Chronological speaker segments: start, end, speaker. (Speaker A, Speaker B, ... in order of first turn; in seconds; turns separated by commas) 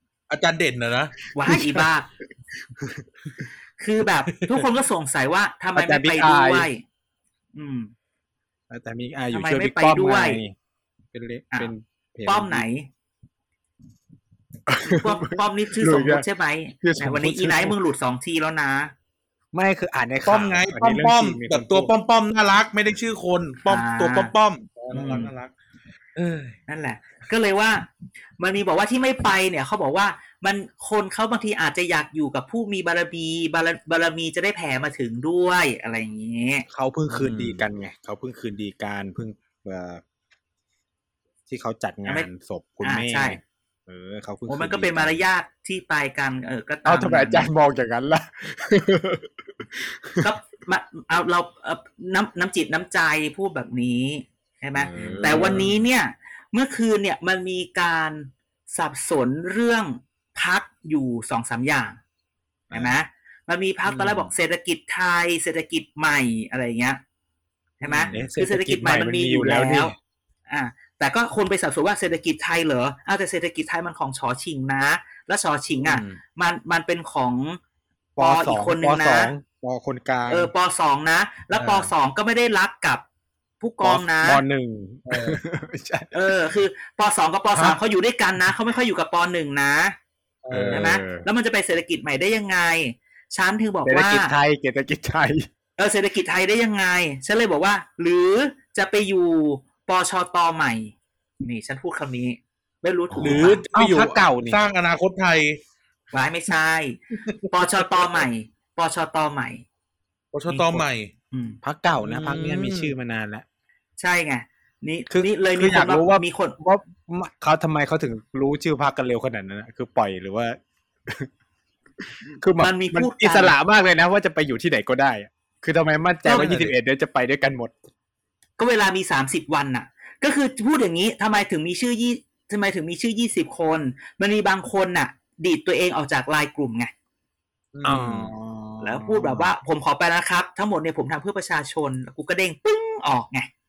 Speaker A: 0.3-1.1, Speaker B: 1.3-2.1, Speaker C: 1.4-1.8, Speaker C: 2.8-3.0, Speaker B: 3.8-6.8, Speaker C: 5.8-6.7, Speaker B: 7.5-7.9, Speaker C: 8.7-10.6, Speaker B: 9.3-10.4, Speaker C: 11.1-12.7, Speaker B: 12.3-12.9, Speaker C: 14.7-16.3, Speaker B: 14.8-18.9, Speaker C: 16.8-17.8, Speaker C: 19.5-21.9, Speaker A: 20.3-25.5, Speaker B: 23.7-24.3, Speaker B: 24.9-25.3, Speaker A: 26.1-26.6, Speaker B: 26.7-27.9, Speaker B: 28.4-36.6, Speaker C: 36.7-40.0, Speaker A: 37.1-37.6, Speaker C: 41.5-45.2, Speaker B: 42.8-43.4, Speaker B: 44.5-47.5, Speaker C: 46.9-50.3, Speaker B: 50.2-62.0, Speaker C: 54.8-55.7, Speaker A: 55.0-55.7, Speaker C: 62.7-63.0, Speaker B: 62.7-67.0, Speaker A: 63.9-64.3, Speaker B: 67.8-69.9, Speaker A: 67.8-68.2, Speaker C: 68.1-70.0, Speaker B: 70.5-77.6, Speaker A: 75.8-76.2, Speaker C: 78.2-80.5, Speaker B: 78.2-79.3, Speaker B: 80.3-83.0, Speaker A: 81.5-81.9, Speaker B: 83.6-84.4, Speaker C: 83.8-86.3, Speaker A: 85.1-85.4, Speaker B: 86.1-90.0, Speaker A: 90.4-90.9, Speaker C: 90.5-91.3, Speaker B: 90.7-94.3, Speaker C: 93.8-95.5, Speaker B: 95.8-103.6, Speaker C: 103.1-104.6, Speaker A: 103.2-105.6, Speaker B: 106.1-109.7, Speaker A: 110.3-111.1, Speaker B: 110.5-111.6, Speaker C: 111.6-113.5, Speaker A: 112.0-112.9, Speaker B: 114.0-116.6, Speaker C: 115.1-121.3, Speaker C: 122.0-127.8, Speaker B: 122.3-123.5, Speaker B: 126.2-126.6, Speaker A: 126.3-126.7, Speaker B: 128.6-136.9, Speaker A: 137.7-138.3, Speaker C: 137.8-139.5, Speaker B: 138.8-143.5